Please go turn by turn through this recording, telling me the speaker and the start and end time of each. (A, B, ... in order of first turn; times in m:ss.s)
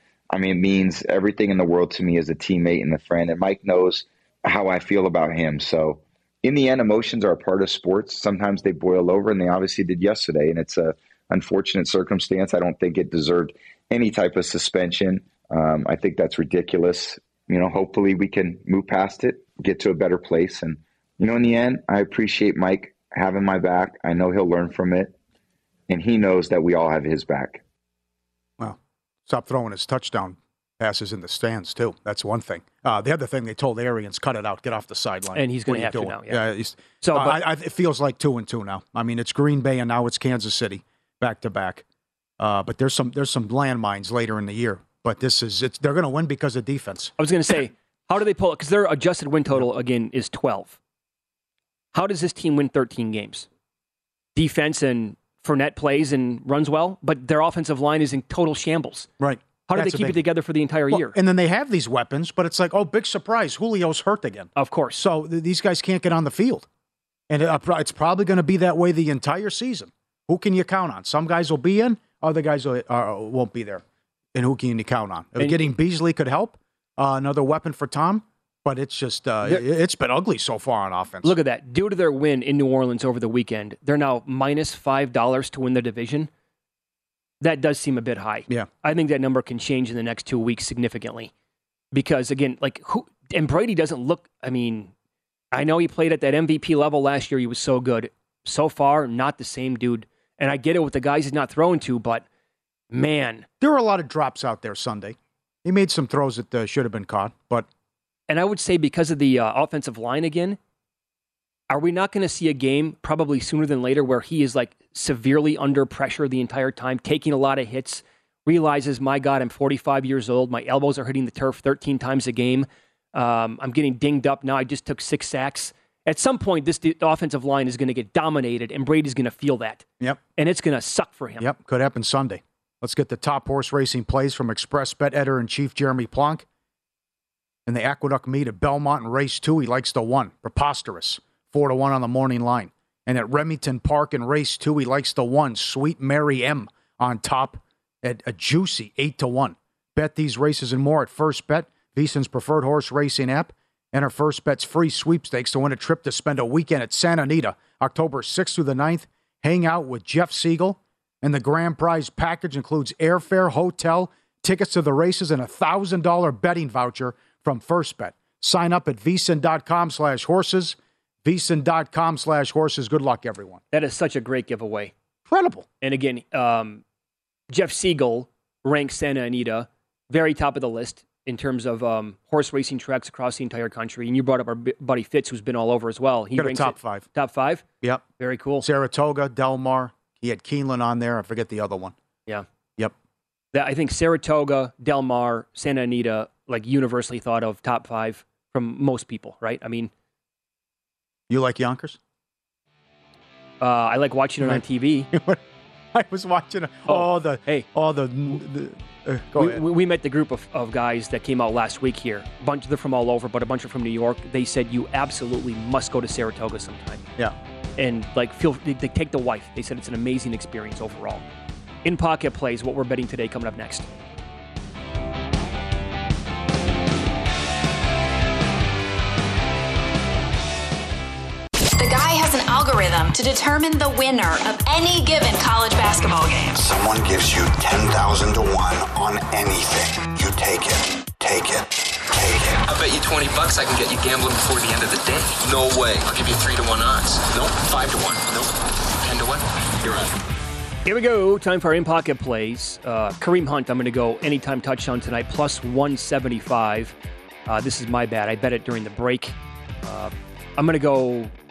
0:00.3-0:25.1 A
0:25.9-0:27.6 A
0:28.6-0:41.8 B
0:35.3-0:36.4 C
0:37.0-0:37.4 C
0:42.4-0:47.1 B
0:47.2-0:50.8 C
0:51.9-0:53.5 C
0:54.3-0:59.1 C
0:59.2-1:00.2 B
0:59.7-1:01.2 C
1:00.9-1:06.7 B
1:04.6-1:05.0 C
1:07.3-1:13.8 B
1:14.3-1:21.4 B
1:15.4-1:15.7 C
1:21.2-1:26.3 C
1:27.4-1:31.3 C
1:31.9-1:34.9 C
1:35.5-1:42.2 C
1:42.9-1:43.4 C
1:43.6-1:47.7 B
1:48.3-1:50.6 C
1:51.7-2:09.8 C
2:10.4-2:11.5 C
2:11.4-2:16.4 B
2:17.6-2:53.6 B
2:53.7-2:54.9 C
2:55.3-2:55.7 B
2:55.8-2:56.8 C
2:57.5-3:07.6 C
3:06.4-3:07.0 B
3:08.2-3:08.6 C
3:08.6-3:11.9 B
3:13.5-3:19.9 C
3:21.3-3:22.0 B
3:23.6-3:25.1 C
3:24.4-3:25.4 B
3:25.9-3:29.6 B
3:26.8-3:27.7 C
3:29.4-3:37.0 C
3:37.8-3:41.2 C
3:41.8-3:43.9 C
3:51.8-3:56.5 D
3:56.6-4:02.6 E
4:02.6-4:10.1 F
4:10.8-4:16.9 C
4:17.4-4:21.3 C